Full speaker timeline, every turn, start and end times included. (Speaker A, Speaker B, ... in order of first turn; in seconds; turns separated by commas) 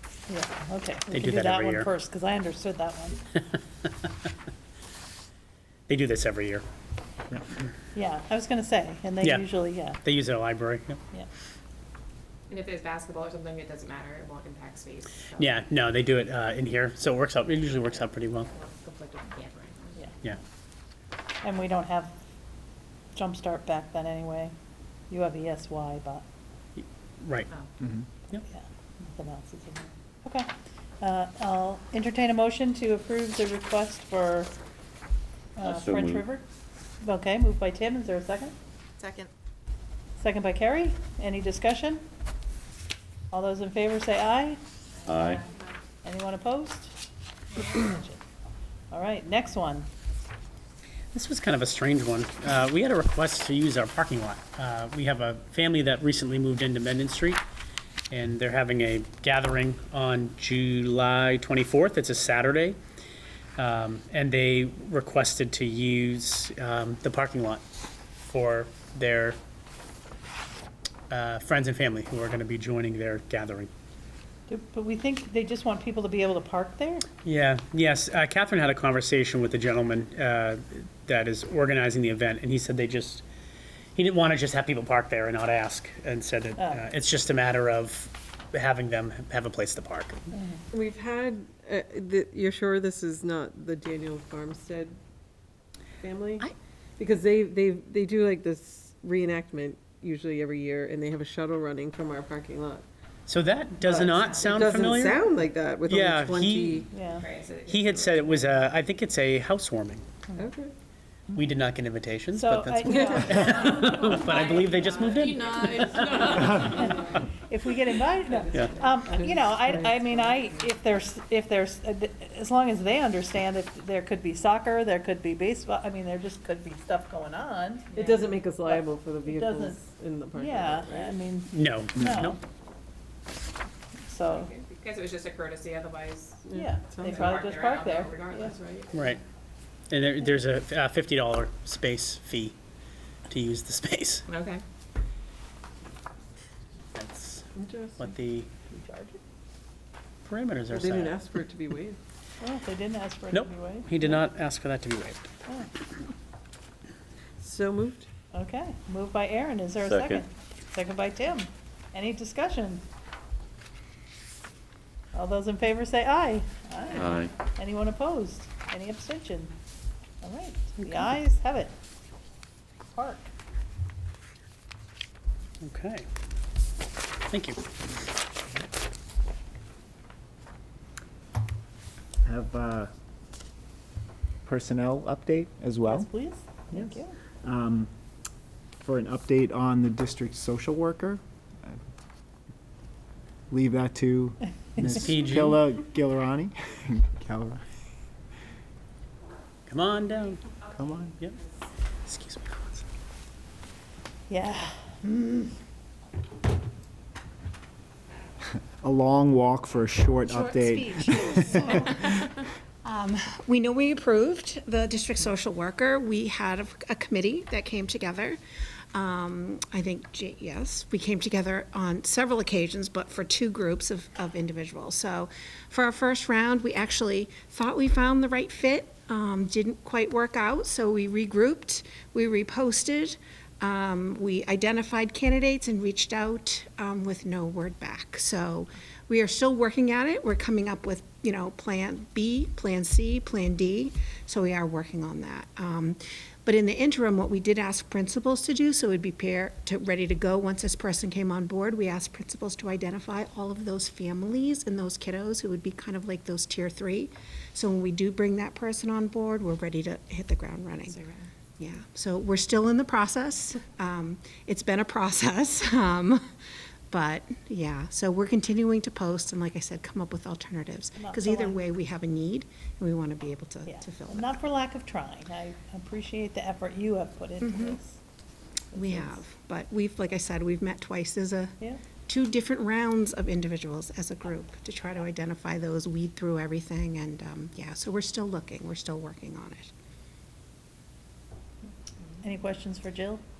Speaker A: 0.3-3.2, Speaker B: 1.1-1.9, Speaker B: 5.9-6.6, Speaker A: 7.9-10.0, Speaker B: 10.0-11.0, Speaker C: 12.5-15.6, Speaker B: 15.4-18.5, Speaker C: 18.5-20.1, Speaker A: 21.4-22.2, Speaker A: 23.1-24.5, Speaker A: 25.1-26.2, Speaker B: 26.8-27.5, Speaker A: 28.4-30.5, Speaker A: 31.0-34.5, Speaker A: 35.6-36.4, Speaker D: 35.6-36.3, Speaker A: 37.0-38.5, Speaker A: 40.2-42.0, Speaker A: 43.3-44.6, Speaker D: 45.0-45.4, Speaker C: 45.3-45.6, Speaker A: 46.0-46.9, Speaker A: 47.5-48.2, Speaker A: 48.9-49.9, Speaker B: 51.1-57.4, Speaker B: 58.1-62.8, Speaker B: 63.6-67.6, Speaker B: 68.2-69.4, Speaker B: 71.1-73.7, Speaker A: 74.5-77.0, Speaker B: 77.2-83.2, Speaker B: 84.0-90.2, Speaker A: 86.6-86.8, Speaker A: 90.3-90.6, Speaker E: 90.7-95.0, Speaker E: 96.0-102.8, Speaker B: 103.3-105.2, Speaker E: 103.8-106.9, Speaker C: 104.1-104.5, Speaker B: 105.9-106.9, Speaker A: 106.9-107.3, Speaker C: 107.1-108.5, Speaker B: 107.7-110.0, Speaker E: 110.3-110.7, Speaker B: 111.3-116.5, Speaker A: 112.3-114.2, Speaker E: 112.8-114.0, Speaker C: 113.4-117.0, Speaker A: 116.4-129.8, Speaker E: 118.3-120.7, Speaker B: 118.5-118.8, Speaker E: 127.9-131.2, Speaker A: 130.3-132.4, Speaker B: 131.5-132.4, Speaker A: 134.1-134.5, Speaker C: 134.2-136.5, Speaker E: 136.4-137.6, Speaker A: 136.5-138.5, Speaker C: 137.0-139.2, Speaker B: 138.9-139.2, Speaker B: 139.9-142.6, Speaker B: 143.3-144.2, Speaker C: 144.3-144.6, Speaker B: 146.9-148.5, Speaker E: 147.5-148.1, Speaker A: 148.7-149.2, Speaker B: 150.2-151.2, Speaker E: 150.7-152.0, Speaker A: 152.4-154.1, Speaker B: 153.3-155.3, Speaker E: 157.4-158.1, Speaker A: 158.3-162.8, Speaker D: 159.8-160.2, Speaker A: 165.1-169.5, Speaker D: 166.9-167.3, Speaker A: 170.2-171.7, Speaker A: 172.9-173.3, Speaker B: 175.6-176.1, Speaker B: 177.3-177.6, Speaker F: 182.2-182.9, Speaker F: 184.4-186.1, Speaker A: 185.8-187.2, Speaker F: 187.4-187.9, Speaker F: 188.8-191.8, Speaker F: 193.5-197.6, Speaker B: 194.8-195.6, Speaker B: 199.7-201.4, Speaker F: 200.7-201.1, Speaker B: 202.1-202.8, Speaker A: 204.3-205.0, Speaker F: 208.8-211.8, Speaker G: 210.3-212.2, Speaker G: 212.8-218.4, Speaker G: 218.9-261.0, Speaker C: 260.9-261.2, Speaker G: 261.6-266.2, Speaker G: 266.9-274.4, Speaker A: 271.0-271.6, Speaker A: 273.7-278.0, Speaker G: 277.4-277.8, Speaker A: 278.7-279.2, Speaker G: 278.7-289.7, Speaker A: 292.2-293.2